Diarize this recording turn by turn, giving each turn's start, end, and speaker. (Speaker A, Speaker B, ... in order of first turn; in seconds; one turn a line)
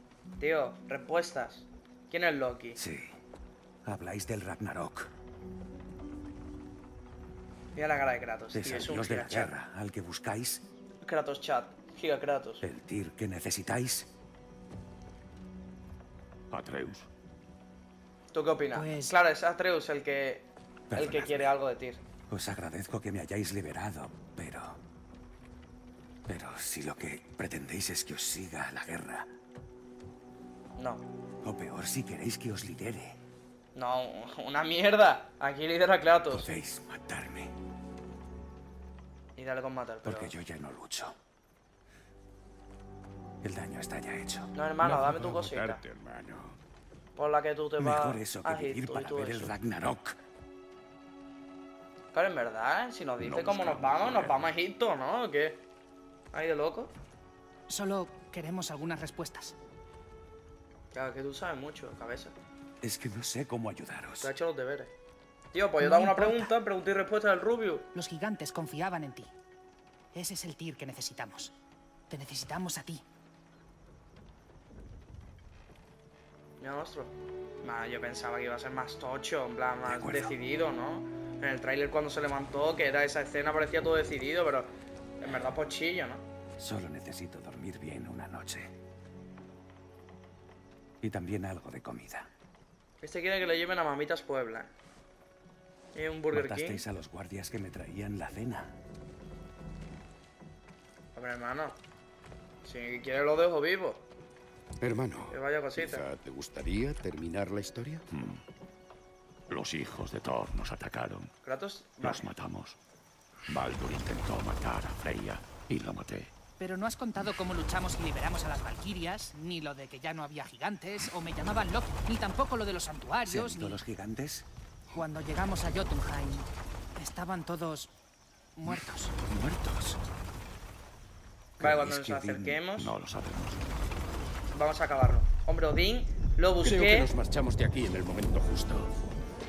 Speaker A: 0.4-2.8
Speaker B: 2.8-3.2
Speaker B: 3.8-5.1
Speaker A: 7.8-9.6
Speaker B: 8.5-10.6
Speaker A: 11.0-12.6
Speaker B: 12.6-14.1
Speaker C: 16.5-17.1
Speaker A: 18.3-22.0
Speaker D: 18.7-19.2
Speaker B: 20.9-21.6
Speaker B: 22.3-24.8
Speaker B: 26.3-29.3
Speaker A: 30.8-31.0
Speaker B: 31.4-33.2
Speaker A: 33.8-36.5
Speaker B: 36.3-37.5
Speaker A: 39.4-40.4
Speaker B: 40.0-41.1
Speaker B: 43.4-44.5
Speaker A: 44.5-45.8
Speaker E: 44.8-46.6
Speaker A: 47.2-49.5
Speaker B: 47.8-50.2
Speaker A: 52.1-55.6
Speaker C: 53.2-54.5
Speaker A: 56.3-56.9
Speaker D: 57.7-59.6
Speaker A: 60.9-62.4
Speaker B: 62.8-64.3
Speaker A: 64.2-64.9
Speaker A: 65.5-67.9
Speaker D: 65.8-66.5
Speaker D: 67.9-69.3
Speaker D: 70.1-71.5
Speaker D: 72.1-73.0
Speaker A: 76.6-86.2
Speaker B: 79.9-80.3
Speaker B: 86.6-88.7
Speaker B: 91.0-92.3
Speaker A: 93.0-94.7
Speaker A: 96.0-96.8
Speaker B: 96.3-98.8
Speaker A: 101.2-101.8
Speaker A: 102.6-104.0
Speaker E: 104.8-108.0
Speaker A: 105.3-106.1
Speaker C: 108.1-108.4
Speaker C: 109.5-111.3
Speaker A: 111.4-112.3
Speaker C: 112.0-112.8
Speaker C: 113.5-116.3
Speaker D: 116.6-123.8
Speaker B: 123.2-124.5
Speaker D: 124.9-127.9
Speaker D: 128.6-129.1
Speaker B: 129.3-130.0
Speaker B: 131.6-132.7
Speaker A: 131.6-132.9
Speaker C: 132.8-133.6
Speaker A: 134.5-137.1
Speaker E: 136.6-139.2